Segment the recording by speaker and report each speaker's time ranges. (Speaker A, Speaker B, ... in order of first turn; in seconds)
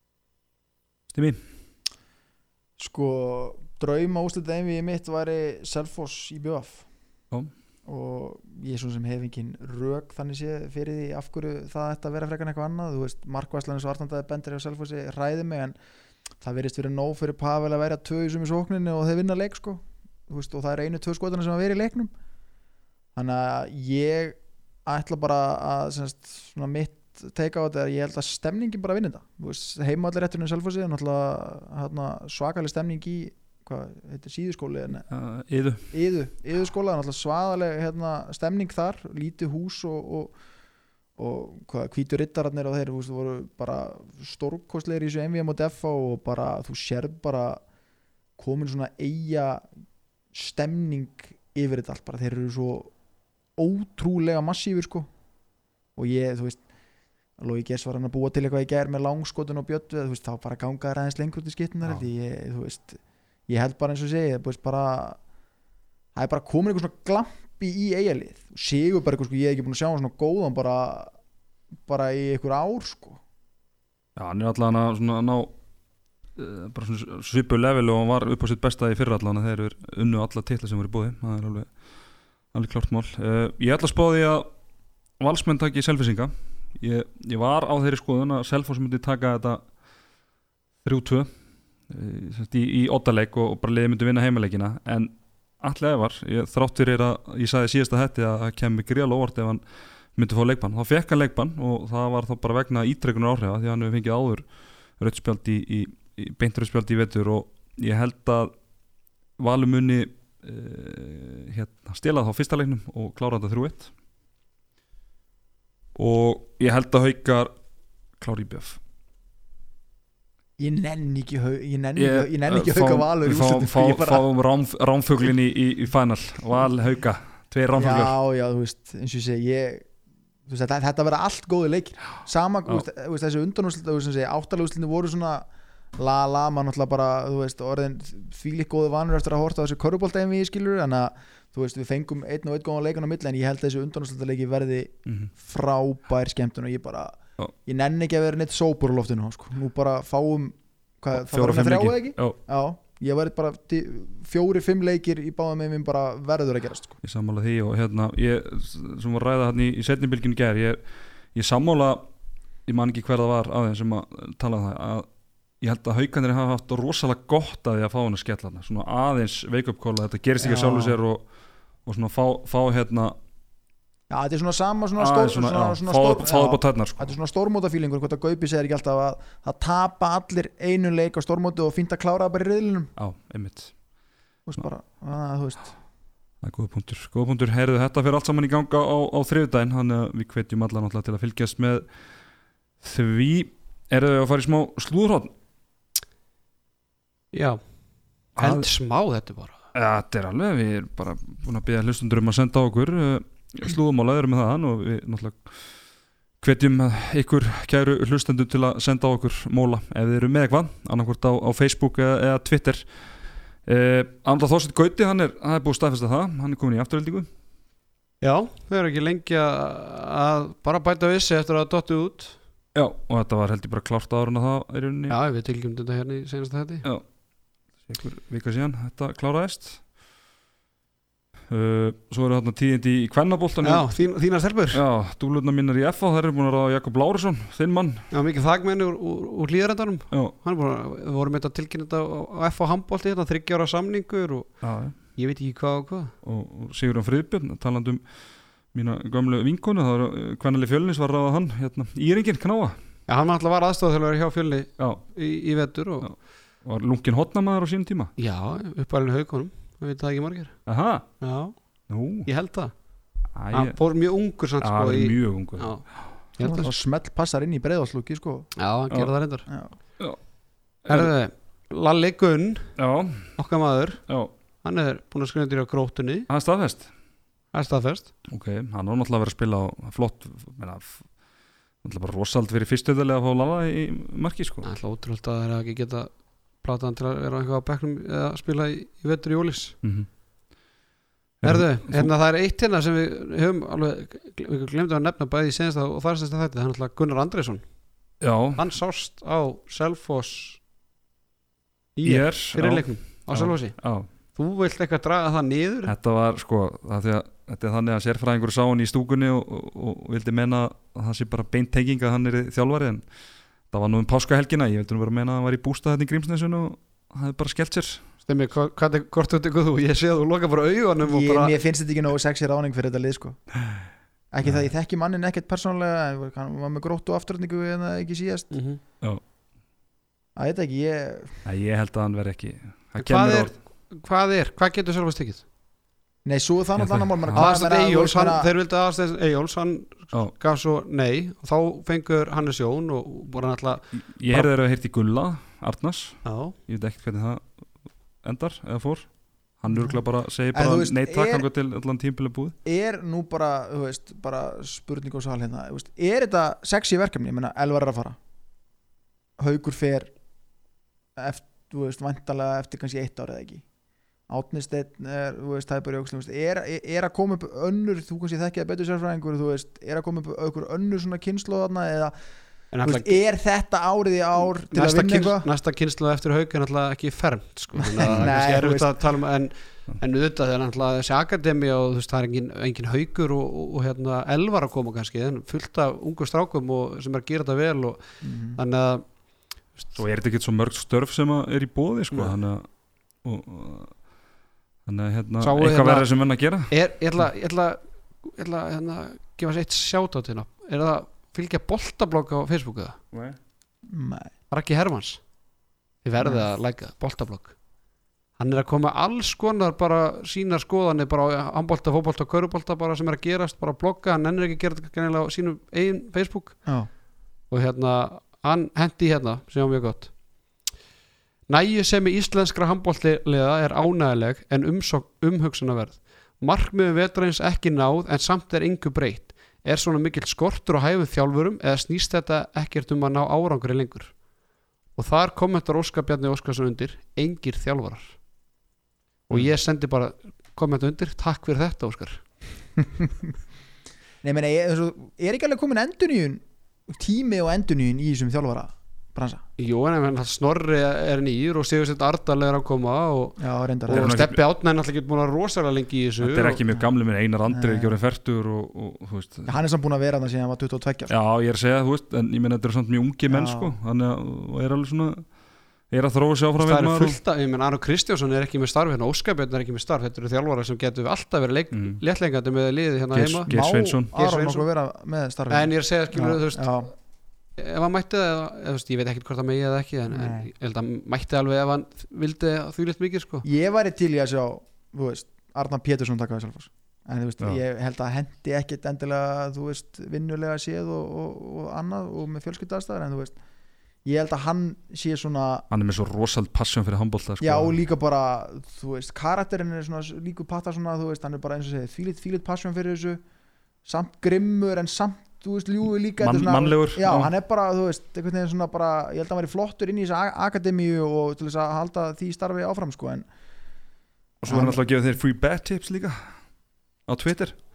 Speaker A: 1.1-1.4, 35.1-35.9, 74.2-75.5, 76.4-81.7, 82.5-84.5, 85.2-89.7, 90.8-91.3, 91.9-99.6, 100.2-104.5, 105.0-108.5, 109.4-113.9, 116.0-117.5, 118.2-118.8, 122.0-128.2, 151.1-152.4, 157.0-160.8, 161.3-162.1, 162.7-165.1, 165.6-171.2, 171.8-173.2, 175.0-177.1, 183.0-183.7, 186.4-191.9, 192.8-195.3, 198.4-198.7, 199.7-205.5, 206.4-212.9, 213.7-217.3, 222.7-225.2, 227.9-229.8, 231.5-233.9, 234.7-238.1, 244.6-245.0, 246.2-248.0, 248.7-252.8, 256.0-258.1, 260.7-261.1, 261.9-262.3, 263.4-263.8, 264.6-266.1, 270.9-271.1, 272.8-273.4, 276.3-276.9, 278.3-281.1, 281.8-284.7, 289.8-290.1, 291.4-292.1, 298.2-298.7, 302.0-304.1, 305.9-313.0, 313.7-318.0, 324.4-324.7, 331.4-333.5, 336.8-337.5, 343.9-347.5, 348.2-352.6, 378.1-378.3, 389.9-392.7, 393.2-393.9, 394.9-396.7, 403.1-403.4, 453.9-454.4, 456.2-459.5, 461.1-465.3, 465.9-467.2, 471.7-472.0, 473.1-474.1, 495.7-497.8, 506.2-507.3, 514.4-516.2, 517.1-517.6
Speaker B: 2.8-6.9, 7.9-15.8, 16.4-22.1, 23.1-35.1, 35.9-40.3, 41.2-47.6, 48.4-49.7, 50.3-52.9, 53.6-55.1, 56.0-56.6, 57.4-65.2, 66.2-71.1, 71.9-73.2, 120.6-124.3, 127.8-129.9, 130.5-157.0, 174.1-182.9, 184.5-185.7, 266.4-268.5, 269.5-269.7, 321.0-323.4, 324.3-328.5, 330.4-331.4, 336.2-338.5, 349.7-350.0, 350.5-351.5, 352.6-358.2, 359.4-360.1, 361.2-363.6, 364.3-372.1, 372.8-375.5, 377.8-378.9, 388.2-388.6, 403.9-404.3, 406.2-406.5, 442.8-443.3, 444.2-449.4, 453.4-454.2, 457.5-458.0, 459.5-461.1, 463.3-463.7, 473.5-476.9, 480.1-480.5, 483.4-493.4, 494.1-495.7, 497.4-503.2, 503.9-513.3, 514.5-514.8
Speaker C: 197.3-197.6, 198.4-199.6, 218.2-222.4, 225.1-226.8, 233.6-234.8, 238.1-244.6, 245.2-246.1, 253.1-256.1, 258.2-260.6, 261.2-261.6, 262.3-262.7, 263.5-266.7, 268.6-269.4, 270.9-272.8, 273.4-274.0, 274.6-276.3, 277.5-278.1, 284.6-286.1, 286.6-289.8, 291.4-297.6, 298.6-300.6, 302.0-303.8, 304.4-305.9, 318.3-321.6, 328.5-328.8, 333.0-335.4, 337.4-344.5, 346.2-346.6, 372.7-373.2, 374.7-388.0, 388.6-389.0, 395.4-396.1, 396.7-403.0, 404.5-405.2, 406.1-407.6, 408.4-416.6, 417.5-420.1, 421.5-434.1, 435.0-438.1, 439.3-442.2, 449.6-456.6, 466.6-473.5, 474.1-474.7, 475.5-476.9, 477.6-483.4